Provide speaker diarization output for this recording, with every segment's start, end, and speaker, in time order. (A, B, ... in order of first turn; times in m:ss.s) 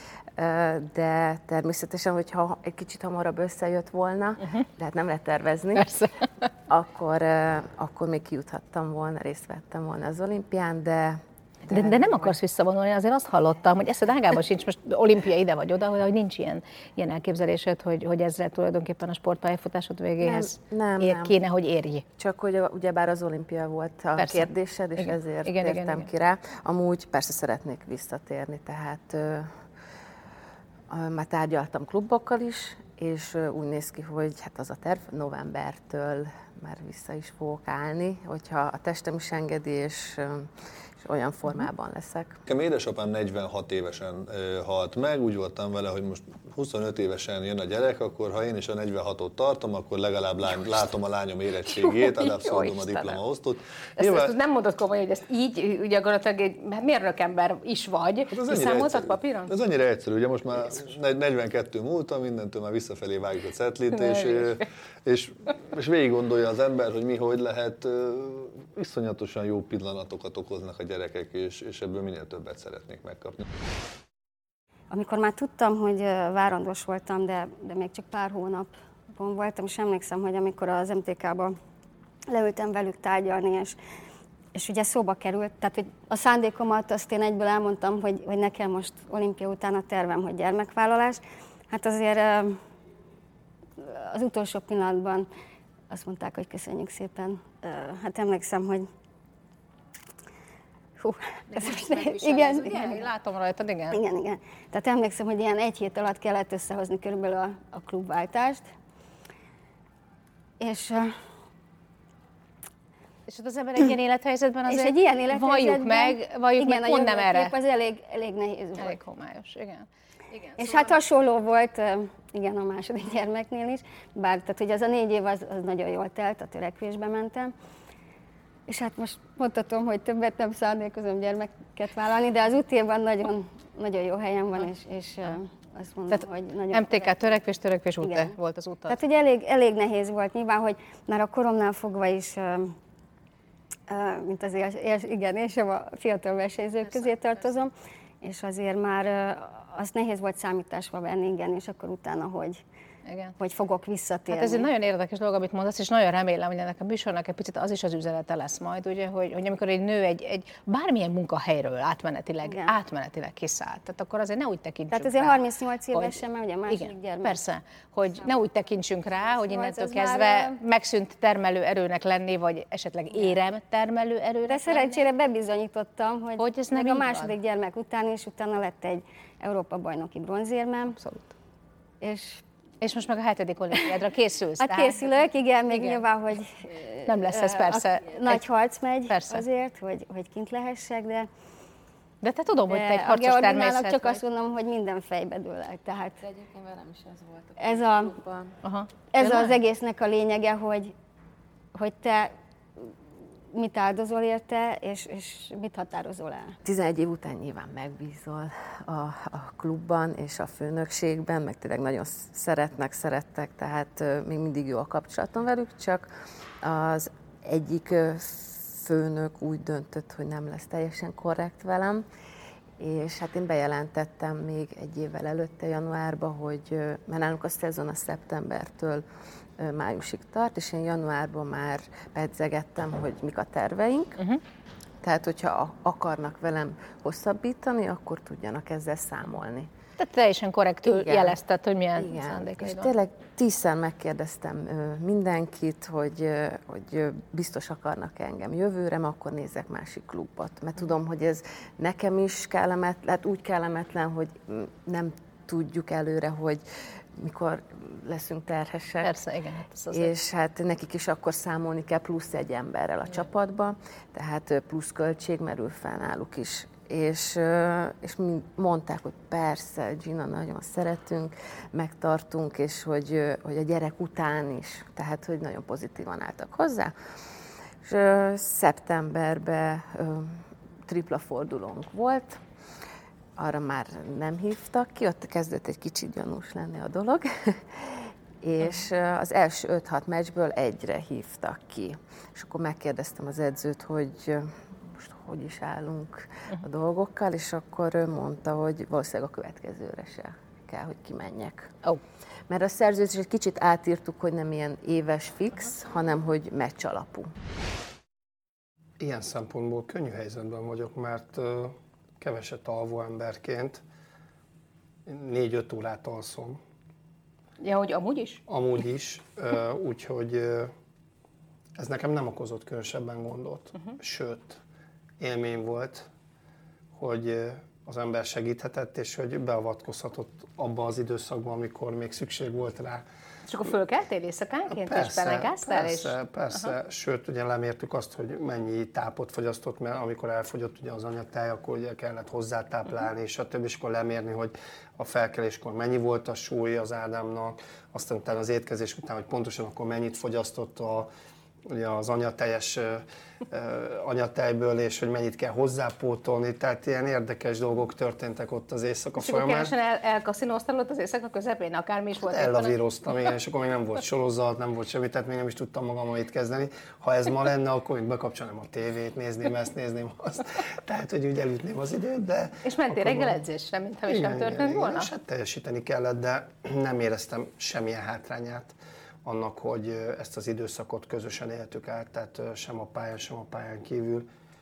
0:00.4-0:05.9 A
0:05.8-0:06.3 B
0:06.7-0:12.3 A
0:11.7-0:22.0 B
0:20.2-0:21.4 A
0:22.2-0:29.6 A
0:24.2-0:26.1 B
0:30.9-0:42.4 A
0:42.5-0:54.3 C
0:51.6-0:53.2 B
0:54.0-0:59.5 B
0:58.3-1:13.5 C
1:03.9-1:04.6 B
1:14.9-1:21.6 D
1:22.3-1:23.8 D
1:24.6-1:32.6 D
1:33.8-1:35.3 D
1:35.9-1:38.9 D
1:41.0-1:43.1 D
1:41.5-1:44.0 B
1:43.9-1:48.6 D
1:50.6-1:51.1 D
1:53.3-1:57.5 B
1:54.7-1:59.0 D
1:58.8-2:01.0 B
2:00.6-2:07.5 D
2:08.7-2:17.3 D
2:16.1-2:19.0 B
2:18.0-2:18.3 D
2:18.9-2:22.8 D
2:23.9-2:32.6 D
2:33.1-2:33.4 B
2:33.4-2:34.7 D
2:34.3-2:45.4 B
2:42.5-2:42.7 D
2:44.9-2:47.4 D
2:45.9-2:55.0 B
2:49.4-2:50.6 D
2:54.5-3:01.0 D
2:56.4-2:57.3 B
3:01.0-3:01.3 B
3:02.0-3:02.4 D
3:02.8-3:05.0 B
3:04.6-3:11.3 D
3:05.7-3:06.0 B
3:07.0-3:08.4 B
3:09.1-3:09.5 B
3:12.2-3:14.2 B
3:12.7-3:16.2 D
3:16.2-3:18.5 A
3:17.6-3:18.1 D
3:18.6-3:19.6 B
3:19.1-3:20.9 D
3:21.8-3:22.3 D
3:23.5-3:26.6 D
3:26.6-3:42.0 A
3:42.8-3:49.0 A
3:49.6-3:54.2 A
3:55.0-3:59.7 A
4:00.0-4:02.9 B
4:00.8-4:01.4 A
4:02.0-4:19.2 A
4:19.0-4:20.1 B
4:19.9-4:36.9 A
4:37.8-4:42.4 A
4:43.4-5:01.7 A
5:02.5-5:07.3 A
5:09.0-5:13.8 E
5:15.1-5:16.6 E
5:17.6-5:18.4 B
5:18.5-5:20.7 E
5:21.8-5:24.6 E
5:25.2-5:26.1 E
5:27.0-5:33.0 E
5:33.5-5:36.7 B
5:34.7-5:51.1 E
5:51.7-5:59.7 E
5:59.2-6:02.8 B
6:02.2-6:13.4 E
6:12.6-6:15.1 B
6:14.1-6:24.3 E